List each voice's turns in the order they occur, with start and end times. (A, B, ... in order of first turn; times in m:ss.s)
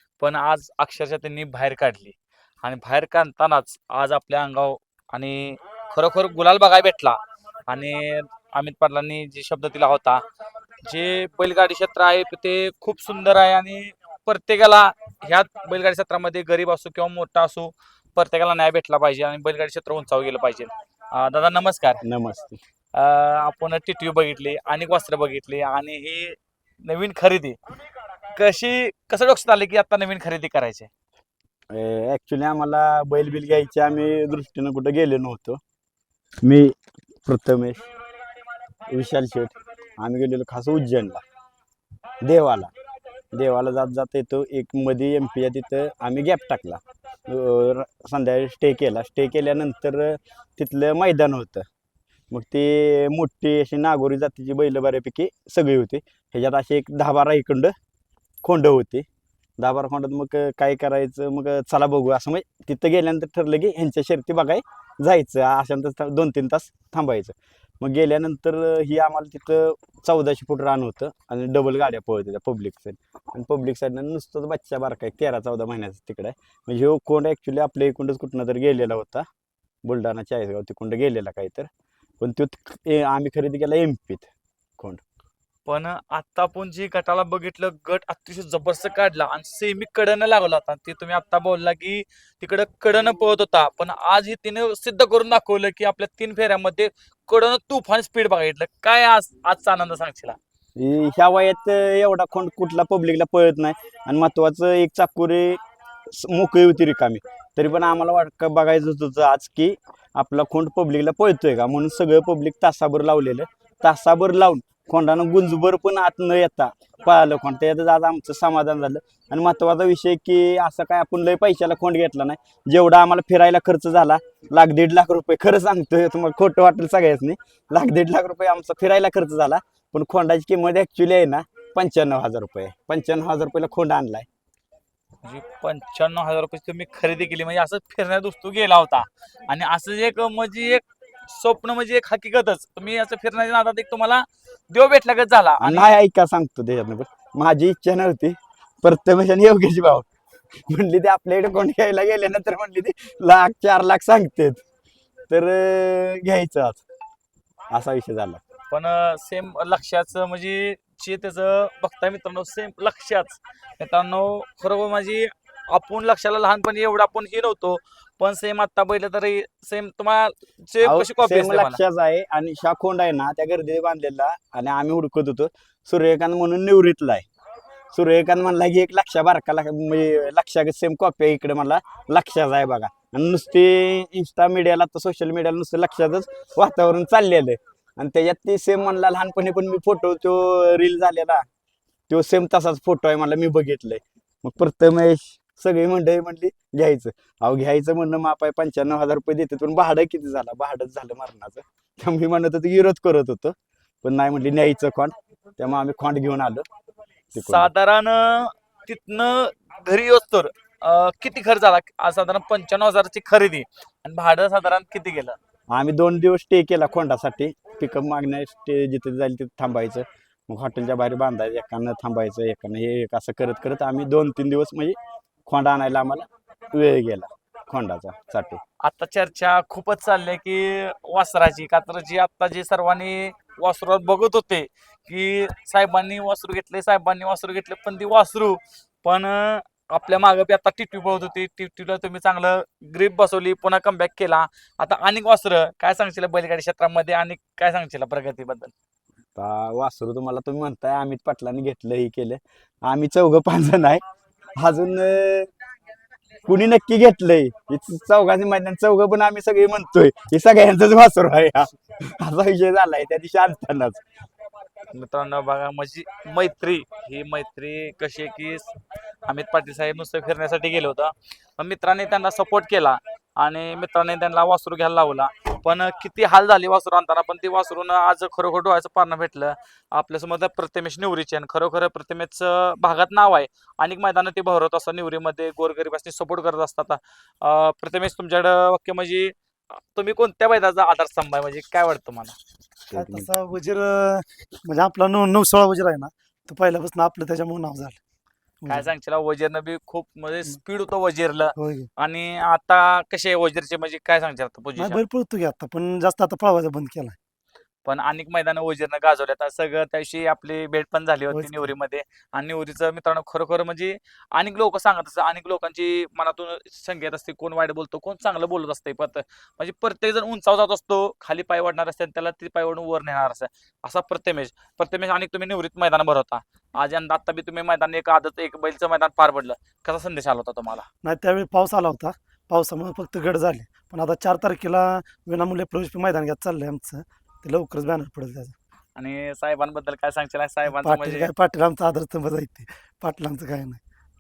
0:00.2-0:10.2 A
0:10.8-0:22.0 A
0:22.0-0:22.6 B
0:23.0-0:27.6 A
0:28.4-0:30.9 A
0:31.7-0:35.6 B
0:36.4-0:37.9 B
0:38.9-0:41.2 B
0:42.2-0:42.7 B
0:43.3-0:51.7 B
0:52.3-0:57.7 B
0:58.4-0:59.0 B
0:59.6-1:19.3 B
1:19.8-1:21.7 B
1:22.2-1:25.0 B
1:25.7-1:40.4 A
1:40.8-1:45.6 B
1:46.1-2:14.3 B
2:15.2-2:25.9 A
2:25.6-2:30.1 B
2:30.7-2:34.6 B
2:35.3-2:36.8 B
2:37.7-2:38.4 B
2:38.7-2:51.8 A
2:50.8-2:57.2 B
2:57.9-3:11.4 B
3:12.1-3:26.6 B
3:27.3-3:27.7 B
3:27.4-3:35.4 A
3:35.7-3:48.6 B
3:48.8-4:08.7 A
4:09.4-4:14.0 B
4:14.6-4:15.5 B
4:16.4-4:24.0 B
4:24.9-4:28.7 A
4:29.2-4:52.4 A
4:52.9-4:53.3 B
4:52.9-4:58.0 C
4:58.6-4:58.9 C
4:58.7-5:05.0 A
5:01.6-5:01.9 C
5:04.8-5:07.2 C
5:07.9-5:30.9 A
5:11.3-5:11.7 C
5:31.0-5:38.6 C
5:39.0-5:41.3 A
5:40.6-5:43.8 C